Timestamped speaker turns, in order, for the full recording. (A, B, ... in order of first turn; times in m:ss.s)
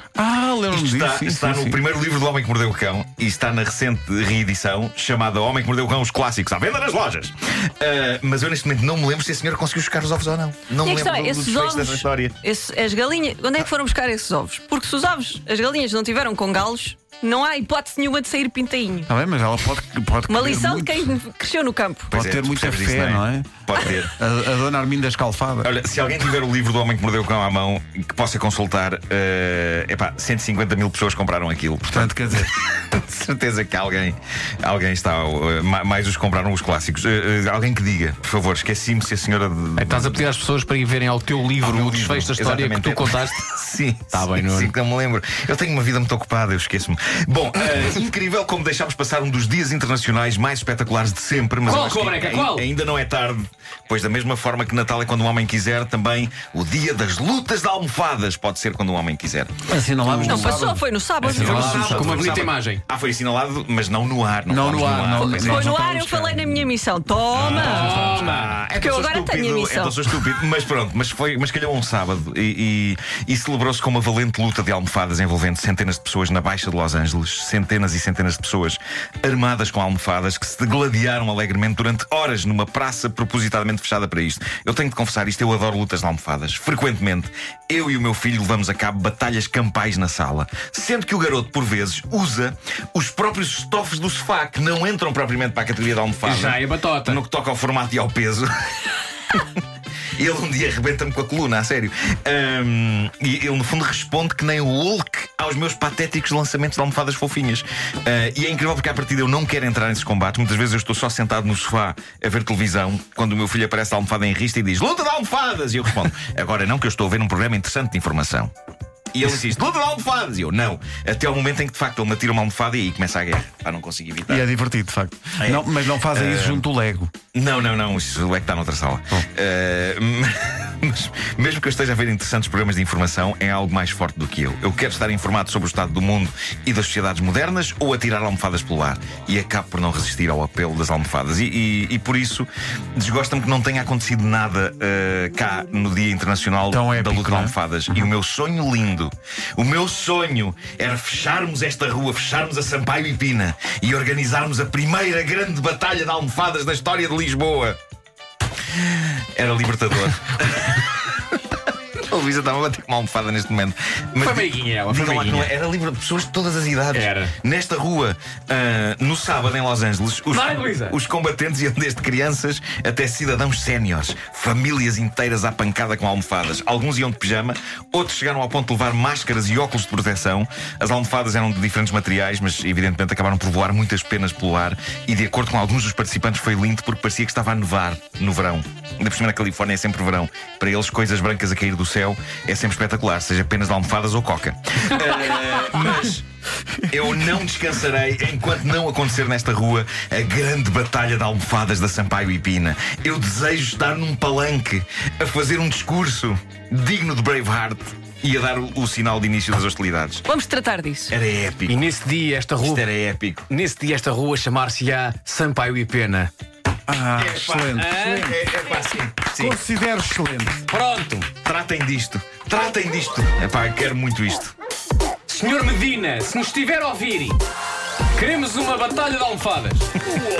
0:00.2-0:01.8 A
0:00.7-0:12.4 B
0:10.8-0:19.1 C
0:19.1-0:21.2 A
0:20.3-0:22.1 C
0:22.1-0:24.1 B
0:22.1-0:25.7 A
0:25.6-0:40.3 B
0:31.9-0:32.5 A
0:39.8-0:43.5 D
0:41.6-0:59.5 B
0:44.1-0:44.7 D
0:51.6-0:52.7 D
0:59.7-1:02.4 A
1:00.2-1:02.0 C
1:01.3-1:02.8 D
1:01.3-1:05.6 B
1:04.5-1:06.6 A
1:05.2-1:08.0 C
1:07.4-1:39.6 B
1:07.5-1:08.6 D
1:07.9-1:08.4 A
1:08.7-1:10.3 C
1:36.2-1:37.2 D
1:40.2-1:58.5 B
1:59.1-2:04.4 B
2:04.3-2:07.1 A
2:05.4-2:06.6 B
2:07.3-2:37.8 B
2:26.7-2:27.6 A
2:38.7-2:41.2 B
2:42.0-3:16.3 B
2:44.2-2:45.5 D
2:46.9-2:47.3 D
2:50.3-2:51.0 D
3:16.9-3:30.3 B
3:30.3-3:31.1 C
3:31.1-3:31.8 B
3:31.7-3:32.9 D
3:32.6-3:33.5 B
3:33.5-3:36.3 D
3:36.9-3:38.4 A
3:37.2-3:39.6 B
3:37.7-3:38.3 D
3:39.4-3:40.7 A
3:40.7-3:41.3 D
3:41.4-3:44.5 B
3:45.3-3:47.4 D
3:48.2-3:49.9 D